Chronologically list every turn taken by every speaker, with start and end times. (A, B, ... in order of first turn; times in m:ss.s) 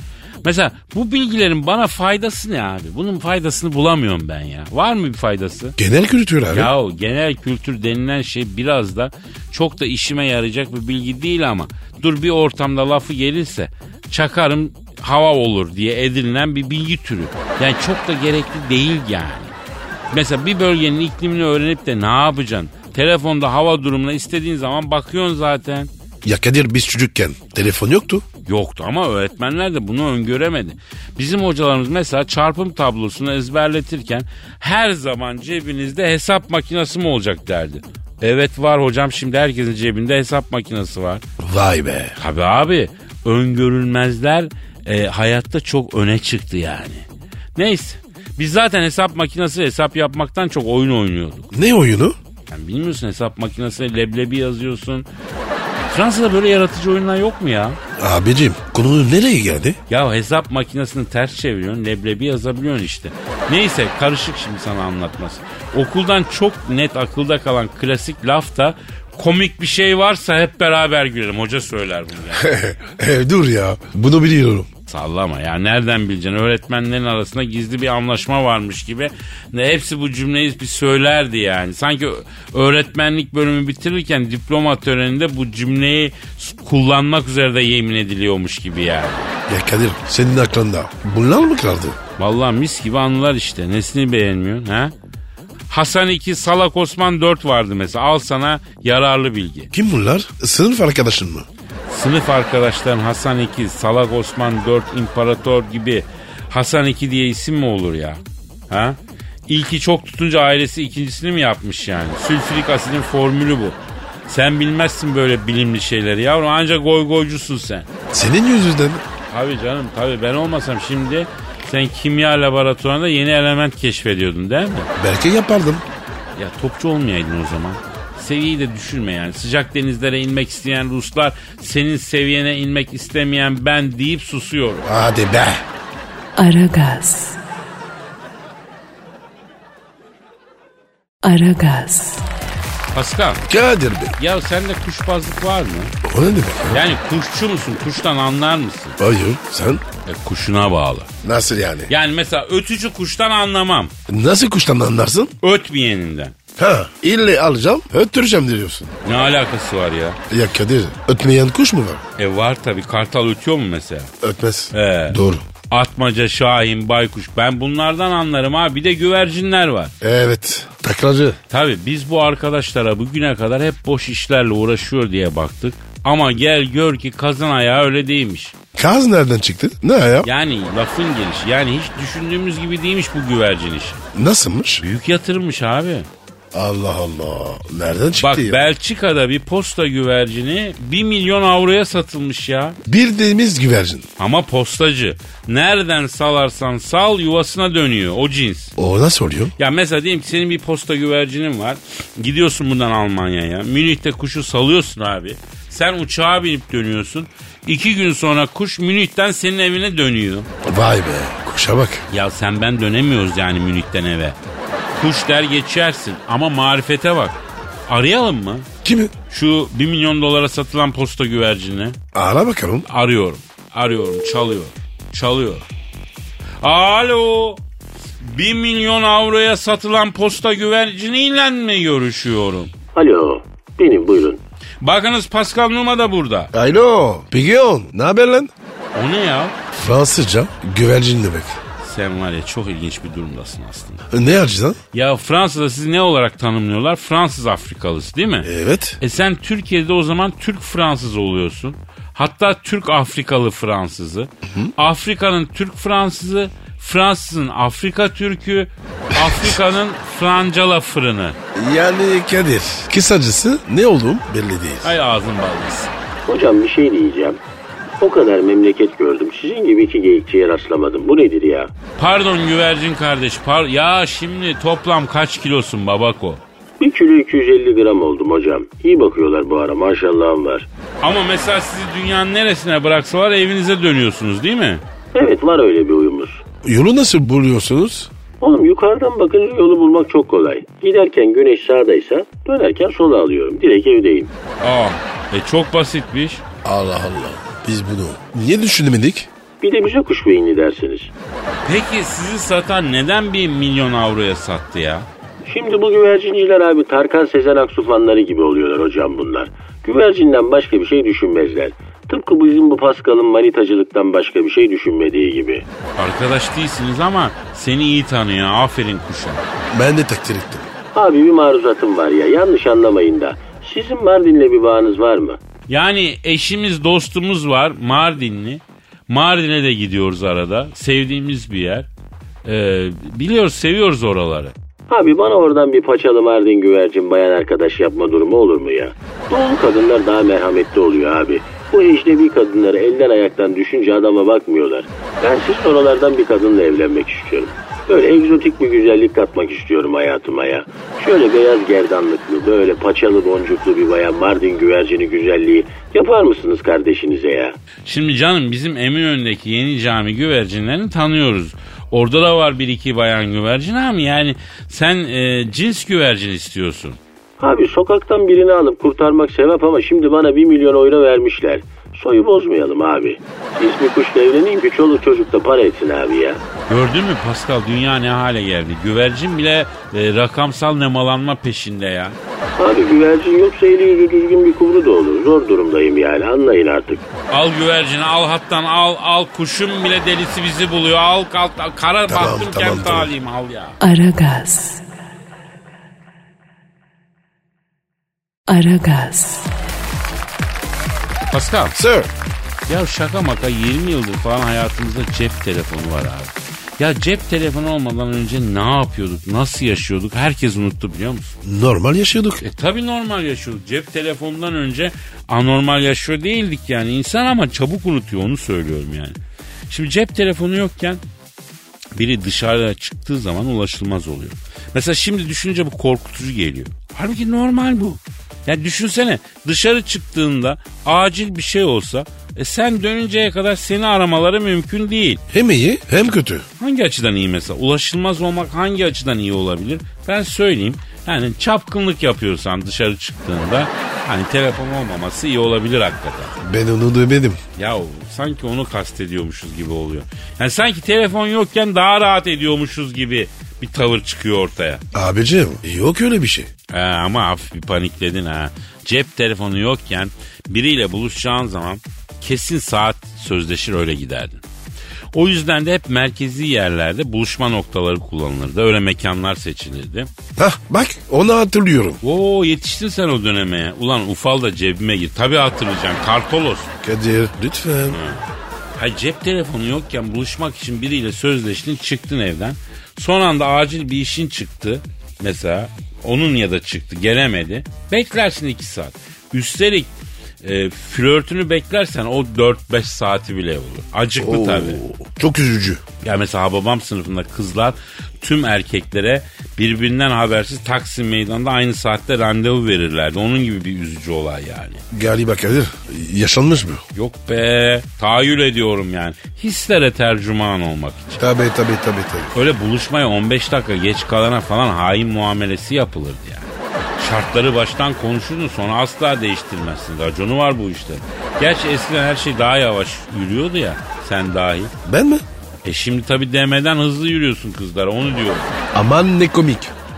0:00.4-0:05.8 A
0:05.8-0:06.7 B
0:06.5-0:19.5 A
0:20.1-0:25.9 A
0:26.2-0:28.2 B
0:28.5-0:41.2 A
0:41.4-0:42.2 B
0:42.2-0:51.5 A
0:51.5-0:52.2 B
0:52.5-0:55.1 A
0:55.9-0:57.8 A
0:58.0-0:59.8 B
0:59.9-1:12.5 A
1:12.4-1:14.7 B
1:14.9-1:29.3 A
1:29.5-1:32.0 B
1:32.2-1:34.9 A
1:35.7-1:39.7 A
1:39.7-1:41.5 B
1:41.9-1:57.9 A
1:58.1-1:59.0 B
1:59.3-2:04.9 A
2:05.0-2:05.8 B
2:06.4-2:14.9 A
2:14.9-2:15.6 B
2:16.4-2:17.4 C
2:21.2-2:22.2 C
2:22.9-2:23.5 A
2:23.5-2:24.2 B
2:24.2-2:25.9 A
2:26.0-2:26.8 B
2:26.7-2:29.0 A
2:29.0-2:29.8 B
2:30.0-2:31.1 A
2:31.2-2:31.9 B
2:31.9-2:33.9 A
2:34.1-2:35.3 B
2:35.4-2:36.4 A
2:36.6-2:39.0 B
2:39.0-2:40.2 A
2:40.3-2:42.0 B
2:42.2-2:44.1 A
2:44.2-2:45.4 B
2:44.7-2:45.2 A
2:45.7-2:49.9 A
2:50.0-2:51.4 B
2:51.5-2:58.5 A
2:58.8-3:00.3 B
3:00.2-3:04.0 A
3:04.1-3:04.8 B
3:04.8-3:06.1 A
3:06.5-3:08.6 B
3:08.2-3:12.8 A
3:12.8-3:14.1 B
3:14.2-3:18.8 A
3:18.8-3:19.6 B
3:19.6-3:30.5 A
3:30.6-3:32.1 B
3:32.1-3:34.4 A
3:34.9-3:38.7 A
3:38.8-3:39.1 B
3:39.3-3:42.0 A
3:42.1-3:42.9 B
3:42.9-3:45.7 A
3:46.6-3:47.6 A
3:48.2-3:52.7 A
3:53.0-3:54.4 D
3:54.8-3:56.5 A
3:56.5-3:58.5 B
3:58.9-3:59.6 A
3:59.7-4:01.6 B
4:01.8-4:04.0 A
4:04.1-4:04.8 B
4:04.9-4:08.5 A
4:08.4-4:09.0 B
4:09.0-4:21.4 A
4:14.5-4:14.7 B
4:19.2-4:19.6 B
4:21.6-4:24.9 B
4:24.8-4:25.9 A
4:26.3-4:27.4 D
4:28.0-4:31.7 D
4:32.0-4:36.4 A
4:36.8-4:40.7 D
4:41.0-4:44.8 A
4:45.1-4:46.4 D
4:46.6-4:48.1 B
4:48.4-4:54.3 D
4:54.6-4:56.4 A
4:56.6-4:59.3 B
4:59.6-5:01.1 D
5:01.6-5:05.1 A
5:05.4-5:15.7 D
5:16.0-5:19.4 A
5:19.7-5:20.7 B
5:20.9-5:25.4 D
5:25.7-5:31.9 A
5:32.4-5:34.5 A
5:34.9-5:57.6 D
5:57.9-6:07.0 A
6:07.4-6:16.4 D
6:16.7-6:22.2 A
6:22.6-6:27.1 D
6:27.3-6:33.8 A
6:32.1-6:33.1 B
6:33.8-6:34.8 C
6:38.5-6:39.5 C
6:41.3-6:41.8 A
6:41.8-6:42.1 B
6:42.7-6:51.4 A
6:51.4-6:52.4 B
6:52.4-6:59.2 A
6:59.7-7:01.0 A
7:02.0-7:15.2 A
7:15.3-7:16.5 B
7:16.6-7:26.4 A
7:26.4-7:27.4 B
7:27.6-7:34.8 A
7:34.9-7:36.5 B
7:36.7-7:44.4 A
7:45.1-7:50.1 A
7:50.4-7:52.0 B
7:52.0-7:56.7 A
7:56.8-7:58.0 B
7:57.9-7:58.2 A
7:58.8-8:09.9 A
8:10.4-8:14.8 A
8:14.2-8:15.8 B
8:16.0-8:24.8 A
8:24.9-8:26.8 B
8:27.0-8:31.2 A
8:31.2-8:32.4 B
8:32.3-8:44.7 A
8:44.8-8:45.2 B
8:45.6-8:48.5 A
8:48.7-8:49.7 B